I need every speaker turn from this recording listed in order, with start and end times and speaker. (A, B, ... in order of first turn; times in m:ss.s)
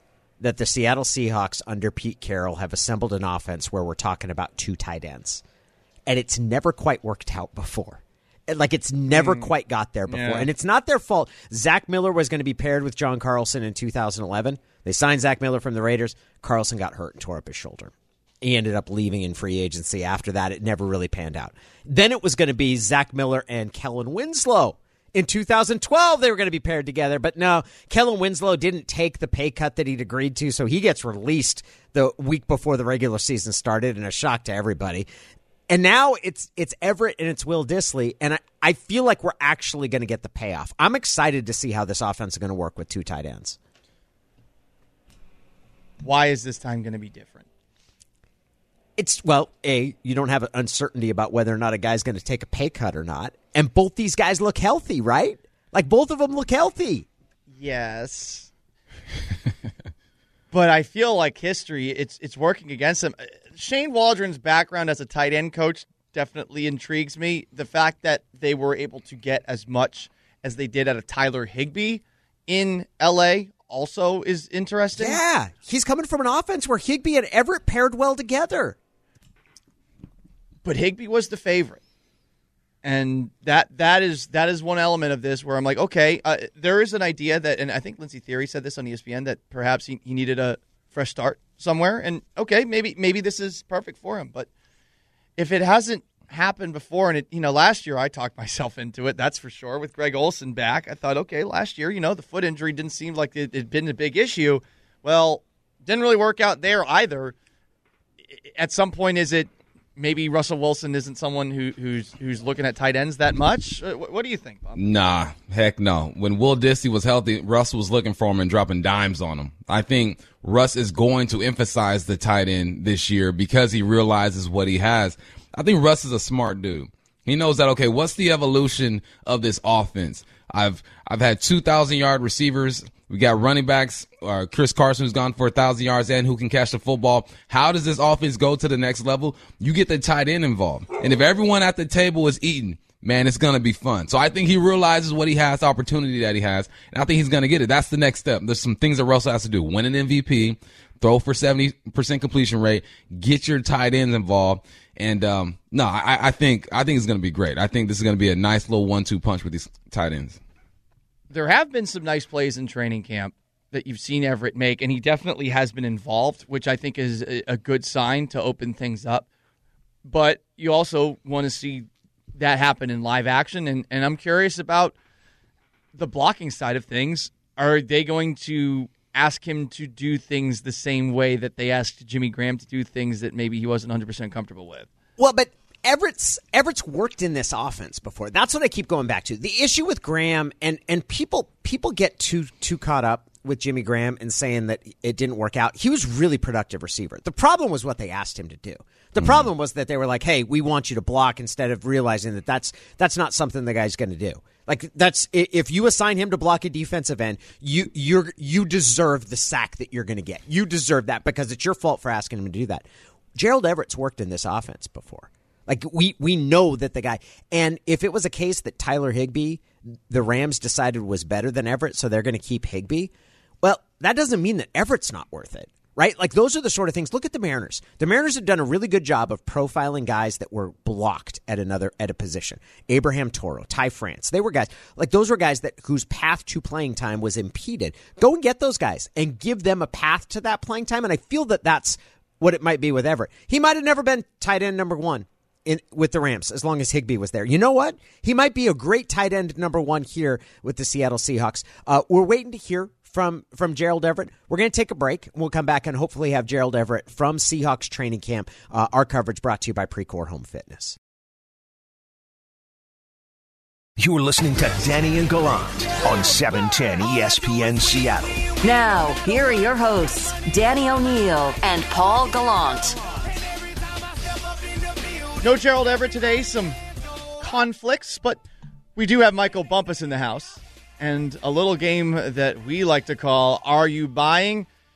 0:00.4-0:05.4 A
0:06.1-0:35.1 A
0:09.1-0:09.5 B
0:10.1-0:10.5 B
0:35.7-0:43.6 A
0:46.0-0:47.4 B
0:49.0-0:57.0 A
0:57.5-0:58.5 B
1:00.5-1:15.2 B
1:15.0-1:18.8 A
1:20.6-1:21.8 B
1:22.8-1:34.5 B
1:35.4-1:47.3 B
1:48.3-1:54.8 B
1:54.8-2:40.4 C
2:41.3-2:49.2 B
2:50.0-2:54.9 B
2:55.9-3:04.9 B
3:05.2-3:32.8 A
3:19.2-3:19.5 C
3:33.4-3:43.1 A
3:43.6-4:21.0 A
4:24.0-4:28.5 D
4:28.6-4:33.0 E
4:35.4-4:36.8 B
4:37.4-4:38.4 B
4:39.0-4:44.7 B